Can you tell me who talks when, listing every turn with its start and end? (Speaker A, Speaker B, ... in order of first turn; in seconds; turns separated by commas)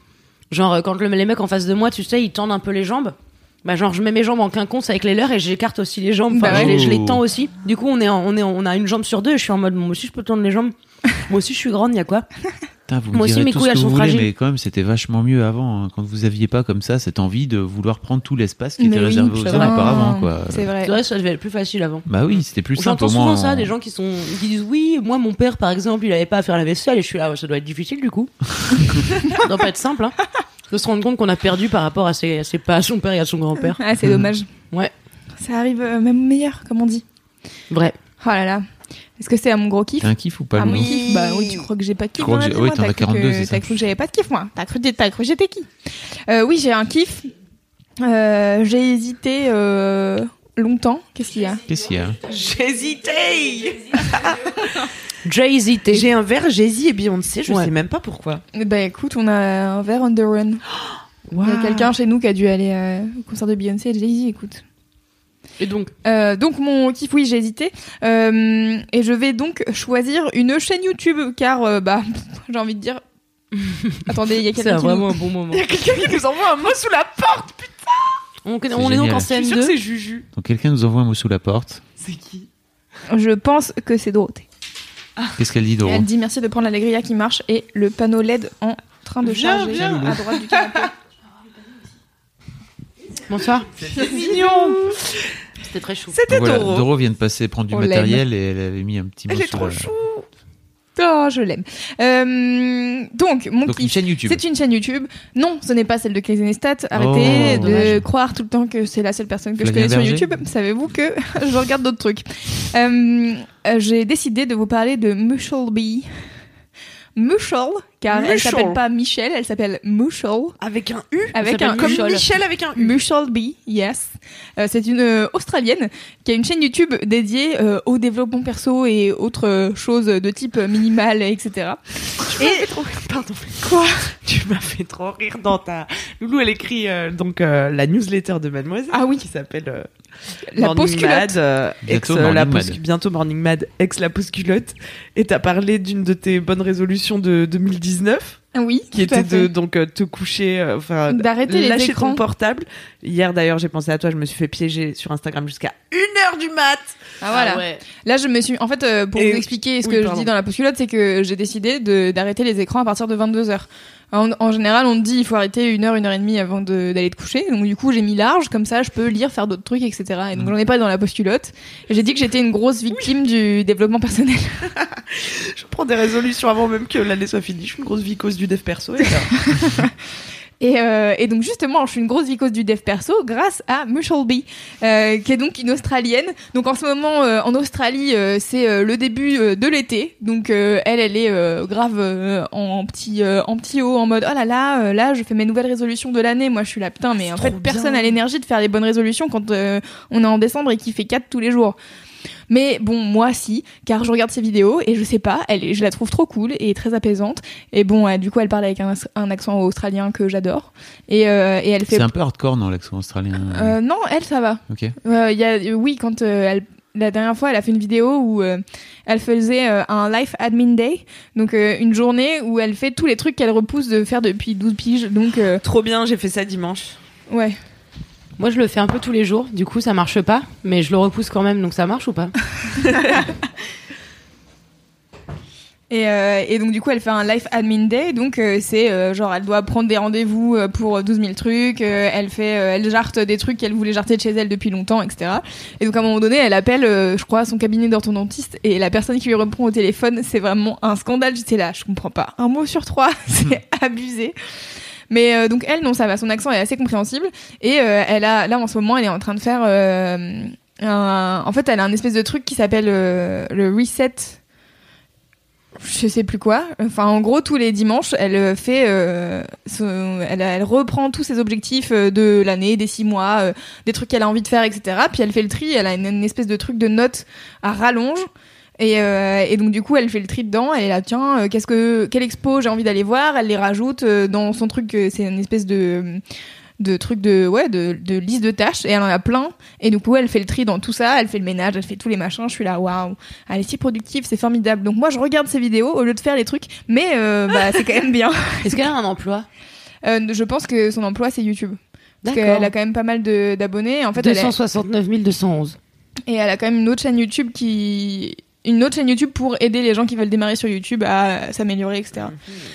Speaker A: 0.5-12.3, Speaker B: 6.3-6.8, Speaker C: 6.4-7.2, Speaker C: 12.9-20.7, Speaker A: 13.1-14.3, Speaker B: 18.8-20.9, Speaker A: 19.4-20.0, Speaker A: 20.8-22.1, Speaker C: 22.1-23.7, Speaker A: 22.8-28.3, Speaker A: 29.1-30.2, Speaker A: 30.7-33.8, Speaker B: 33.6-34.5, Speaker B: 35.4-37.0, Speaker A: 37.7-38.0, Speaker B: 38.2-38.6, Speaker B: 39.2-45.7, Speaker C: 40.0-41.0, Speaker D: 40.6-41.7, Speaker C: 42.2-43.7, Speaker B: 46.3-47.3, Speaker B: 48.0-51.6, Speaker C: 51.7-52.2, Speaker D: 52.2-54.9, Speaker A: 55.2-56.1, Speaker D: 55.9-58.4, Speaker B: 58.5-60.6, Speaker D: 61.3-61.9, Speaker B: 61.4-64.6, Speaker A: 65.6-65.9, Speaker B: 66.0-73.0, Speaker A: 73.6-74.0, Speaker B: 74.1-75.2, Speaker A: 74.6-75.7, Speaker D: 75.5-78.2, Speaker A: 78.5-79.8, Speaker C: 78.7-79.3, Speaker D: 79.3-80.3, Speaker C: 80.3-81.8, Speaker D: 82.0-82.5, Speaker B: 83.1-84.5, Speaker C: 85.4-86.1, Speaker B: 85.8-90.9, Speaker D: 89.2-90.9, Speaker C: 89.7-90.2, Speaker A: 93.3-93.7, Speaker D: 93.8-95.3, Speaker B: 94.0-94.8, Speaker A: 95.6-96.2, Speaker D: 96.1-96.9, Speaker C: 96.3-99.9, Speaker B: 97.7-98.2, Speaker D: 99.3-100.3, Speaker B: 101.0-116.1, Speaker C: 103.7-104.4, Speaker C: 106.9-108.1, Speaker D: 107.5-107.8, Speaker C: 109.6-110.4, Speaker B: 117.2-120.6, Speaker D: 118.1-118.8, Speaker D: 120.6-123.0, Speaker B: 121.3-132.7, Speaker A: 121.4-122.3, Speaker D: 132.2-139.9, Speaker B: 133.6-134.1, Speaker B: 138.9-139.2, Speaker B: 140.5-141.4, Speaker D: 140.6-157.8, Speaker C: 141.8-142.8, Speaker B: 148.6-149.5, Speaker B: 151.1-152.2, Speaker B: 157.2-174.7, Speaker D: 159.2-160.3, Speaker D: 174.8-179.3, Speaker B: 179.4-179.9, Speaker B: 180.6-201.8, Speaker D: 197.3-198.2, Speaker B: 202.5-212.1, Speaker C: 211.9-213.8, Speaker B: 213.5-225.6, Speaker C: 214.7-214.9, Speaker D: 225.6-227.0, Speaker B: 227.3-227.6, Speaker A: 228.4-232.3, Speaker B: 235.9-254.3, Speaker B: 255.1-264.4, Speaker B: 265.8-278.3, Speaker B: 278.8-286.2, Speaker B: 286.8-298.9, Speaker A: 298.6-299.5, Speaker B: 300.0-304.5, Speaker A: 302.2-302.7, Speaker A: 304.2-305.8, Speaker B: 306.3-312.4